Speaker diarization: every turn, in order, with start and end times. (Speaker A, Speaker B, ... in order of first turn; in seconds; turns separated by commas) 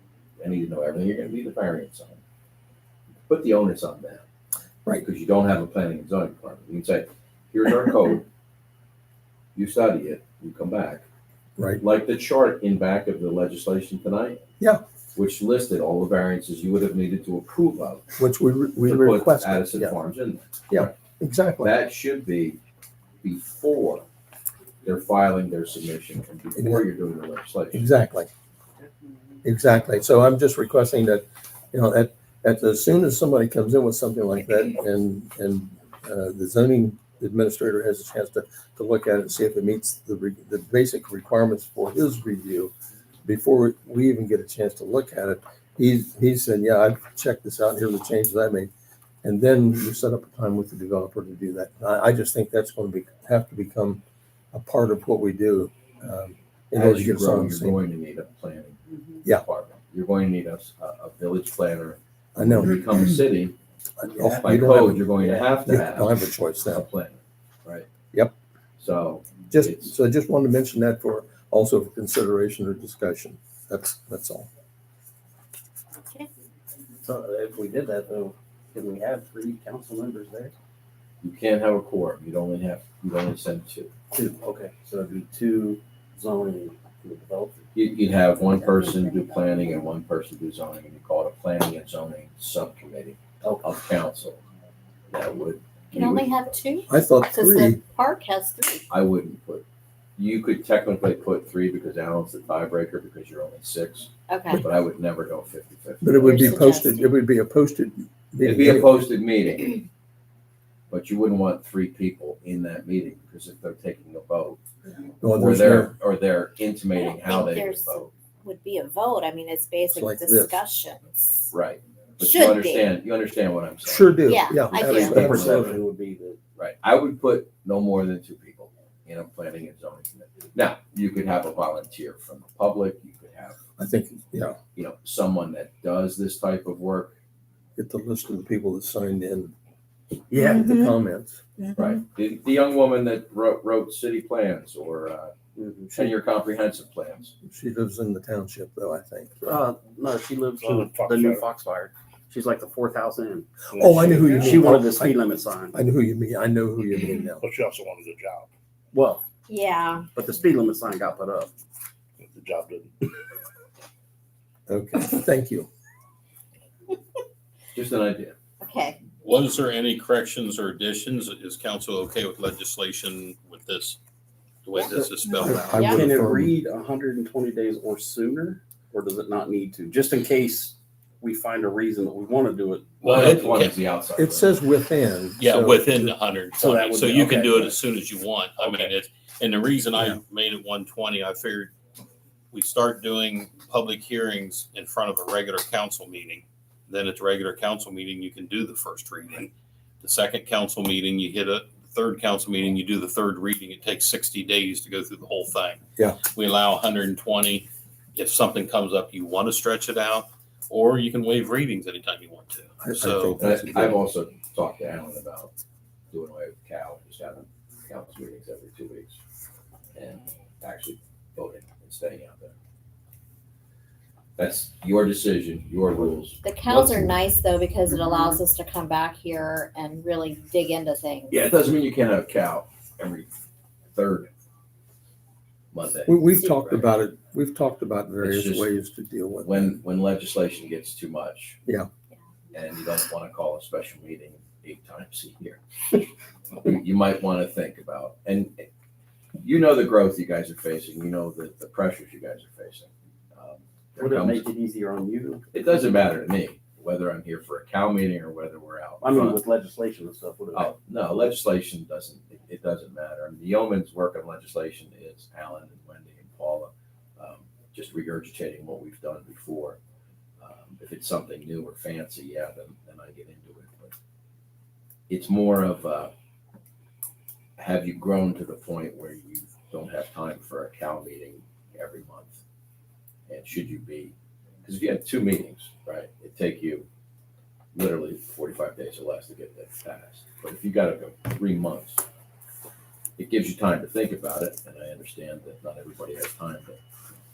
Speaker A: 0.4-2.2, Speaker A: 3.3-4.2, Speaker A: 5.0-8.2, Speaker A: 9.5-11.0, Speaker A: 11.8-14.4, Speaker A: 15.1-18.1, Speaker B: 18.2-19.9, Speaker A: 18.8-20.9, Speaker B: 20.7-21.7, Speaker A: 21.6-22.6, Speaker A: 23.2-24.1, Speaker A: 24.8-27.8, Speaker B: 26.6-26.9, Speaker B: 27.7-28.3, Speaker B: 29.4-42.7, Speaker B: 43.2-48.7, Speaker B: 49.2-54.0, Speaker B: 54.5-57.8, Speaker A: 56.7-63.5, Speaker B: 62.4-62.8, Speaker B: 64.0-65.1, Speaker A: 64.2-67.9, Speaker C: 65.2-65.5, Speaker B: 65.6-66.9, Speaker A: 68.8-69.9, Speaker B: 69.5-74.5, Speaker C: 77.0-80.5, Speaker A: 81.2-83.9, Speaker C: 84.1-87.6, Speaker A: 87.7-94.4, Speaker D: 88.6-89.7, Speaker C: 93.4-93.7, Speaker A: 95.1-96.5, Speaker D: 95.9-98.9, Speaker B: 96.9-97.8, Speaker A: 98.9-99.6, Speaker A: 100.2-106.8, Speaker D: 104.3-104.6, Speaker B: 106.0-109.1, Speaker D: 106.2-107.1, Speaker A: 108.4-109.8, Speaker A: 110.9-114.6, Speaker B: 115.2-115.9, Speaker A: 115.3-118.1, Speaker D: 117.0-121.5, Speaker B: 119.9-120.5, Speaker A: 121.5-125.8, Speaker D: 122.2-122.9, Speaker B: 123.8-125.8, Speaker D: 124.3-125.3, Speaker C: 124.8-126.4, Speaker A: 126.5-133.6, Speaker B: 133.8-134.6, Speaker A: 134.7-137.2, Speaker B: 137.8-139.5, Speaker B: 140.3-141.4, Speaker C: 140.3-140.6, Speaker D: 140.4-140.9, Speaker D: 141.6-141.9, Speaker A: 141.8-145.3, Speaker C: 145.6-146.1, Speaker A: 145.9-147.3, Speaker B: 147.4-149.6, Speaker C: 149.4-153.7, Speaker E: 150.6-151.4, Speaker E: 153.7-154.6, Speaker B: 153.8-155.2, Speaker C: 154.3-155.8, Speaker B: 155.7-157.4, Speaker E: 157.4-158.5, Speaker C: 158.9-159.2, Speaker D: 159.5-160.1, Speaker C: 160.1-161.5, Speaker E: 162.2-163.1, Speaker B: 164.7-165.7, Speaker A: 167.7-168.3, Speaker D: 168.6-169.0, Speaker F: 169.2-174.0, Speaker F: 174.6-175.8, Speaker D: 174.8-176.1, Speaker B: 174.9-176.5, Speaker C: 175.8-183.4, Speaker F: 183.0-183.7, Speaker A: 183.0-184.6, Speaker B: 184.2-186.1, Speaker F: 185.4-191.7, Speaker C: 186.6-187.8, Speaker C: 188.6-188.9, Speaker F: 192.5-213.4, Speaker B: 212.8-214.0, Speaker A: 213.4-215.5, Speaker A: 216.1-219.2, Speaker A: 219.9-222.5, Speaker A: 224.4-226.4, Speaker D: 226.4-231.4, Speaker A: 231.3-233.3, Speaker A: 233.9-234.3, Speaker A: 235.7-236.8, Speaker B: 236.1-239.8, Speaker A: 238.2-238.7, Speaker A: 239.4-241.6, Speaker A: 242.5-245.6, Speaker A: 246.6-248.7, Speaker A: 249.4-254.4, Speaker C: 254.0-255.5, Speaker A: 255.5-259.4, Speaker C: 259.0-260.7, Speaker A: 260.5-269.8, Speaker A: 270.4-273.9, Speaker A: 275.1-276.1, Speaker A: 277.6-282.4, Speaker A: 283.3-286.9, Speaker A: 287.7-292.0, Speaker A: 293.2-296.8